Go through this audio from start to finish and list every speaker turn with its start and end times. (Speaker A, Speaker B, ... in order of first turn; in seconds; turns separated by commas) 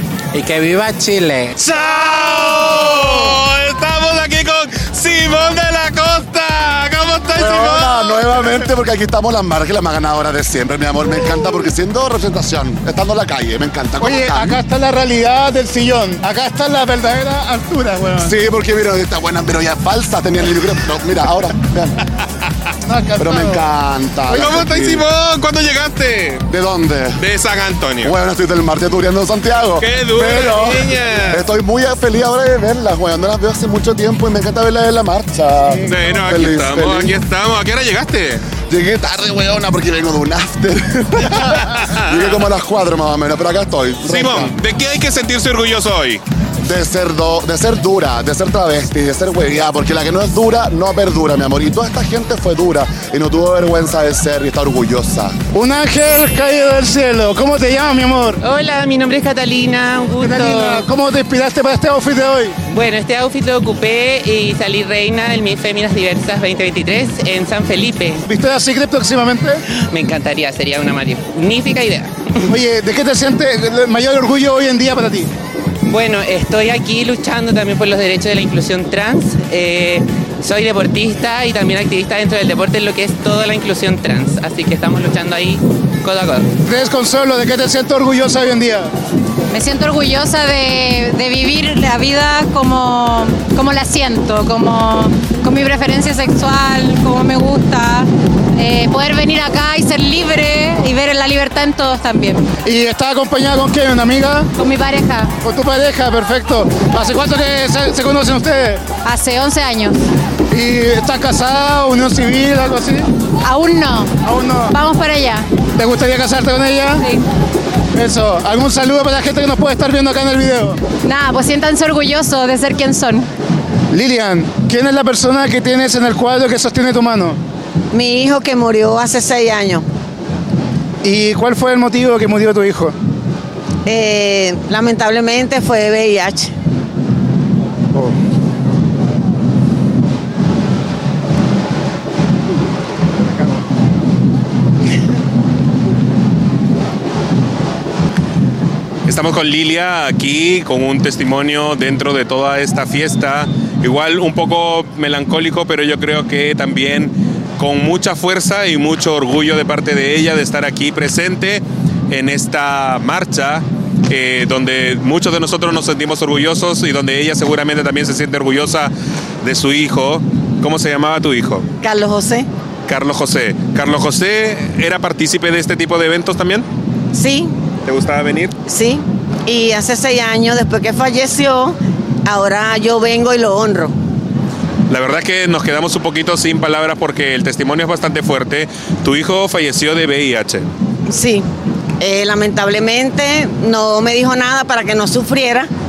Speaker A: 1.6-8.2, Speaker B: 7.3-14.6, Speaker C: 14.0-18.3, Speaker B: 18.2-22.0, Speaker C: 22.9-23.6, Speaker B: 23.2-25.1, Speaker A: 24.3-26.5, Speaker B: 26.5-27.2, Speaker A: 27.2-28.1, Speaker B: 28.0-37.1, Speaker A: 29.8-31.5, Speaker A: 35.8-38.4, Speaker B: 38.7-44.5, Speaker A: 41.3-42.4, Speaker A: 44.0-46.2, Speaker B: 46.6-55.4, Speaker C: 55.5-58.4, Speaker D: 58.4-60.8, Speaker C: 60.2-62.5, Speaker D: 62.7-68.2, Speaker C: 68.2-69.6, Speaker D: 69.9-72.1, Speaker C: 72.5-75.3, Speaker D: 75.9-86.5, Speaker C: 86.6-88.9, Speaker E: 89.5-102.4, Speaker C: 102.6-104.5, Speaker E: 104.6-105.3, Speaker C: 105.4-108.8, Speaker E: 109.0-110.0, Speaker C: 110.5-113.1, Speaker E: 113.4-114.1, Speaker C: 114.2-114.8, Speaker E: 114.7-115.5, Speaker C: 115.8-117.0, Speaker C: 117.9-120.8, Speaker E: 121.0-123.3, Speaker C: 123.9-127.4, Speaker F: 127.9-129.8, Speaker C: 131.0-132.9, Speaker F: 133.8-136.5, Speaker A: 149.1-168.9, Speaker A: 169.4-171.7, Speaker F: 171.8-172.5, Speaker A: 172.9-176.7, Speaker F: 177.1-177.5, Speaker A: 177.8-178.5, Speaker F: 178.7-183.9, Speaker A: 184.9-190.7, Speaker F: 191.1-191.4, Speaker F: 192.0-195.7